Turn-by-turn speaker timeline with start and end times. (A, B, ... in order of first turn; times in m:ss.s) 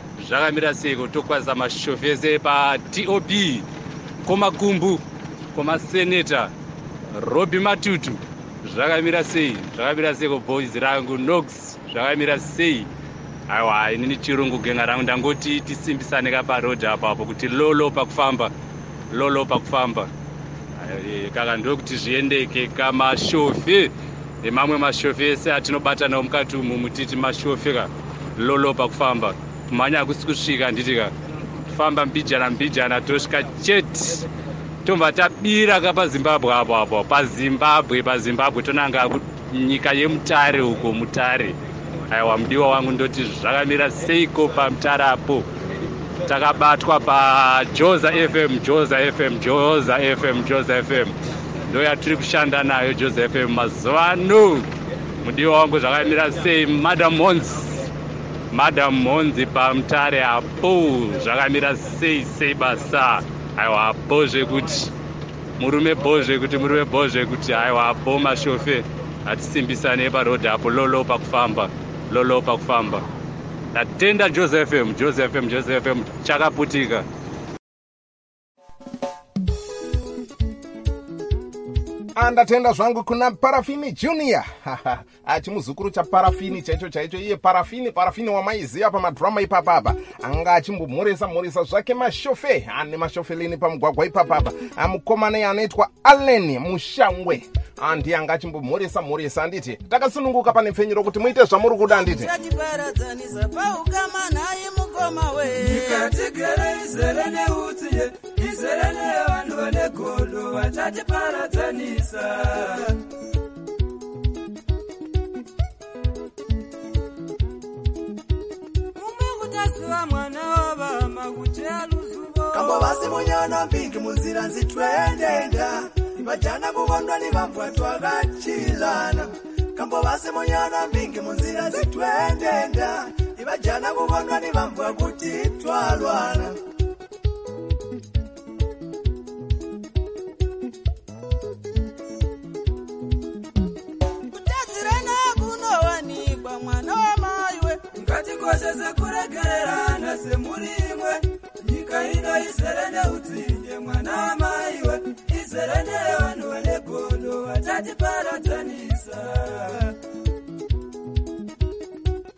0:00.2-0:03.6 A
0:04.2-0:05.0 A
0:05.5-0:06.5 A
0:07.2-0:12.9 A
0:13.5-0:18.5 A
0:19.1-0:20.1 A
0:20.8-0:31.1 A
0:31.7-0:34.3 A
0:34.8-0:41.6 A
0:42.1-0:45.4 A
0:46.2-0:51.1 A
0:51.7-0:54.7 A
0:55.2-0:57.8 A
0:58.5-1:04.9 A
1:05.6-1:13.0 A
1:13.7-1:17.0 A
1:22.1-1:42.3 B
1:41.9-1:46.1 C
1:45.6-1:53.0 D
1:58.9-2:02.8 D
2:02.5-2:16.6 E
2:24.3-2:27.8 C
2:27.9-2:40.0 D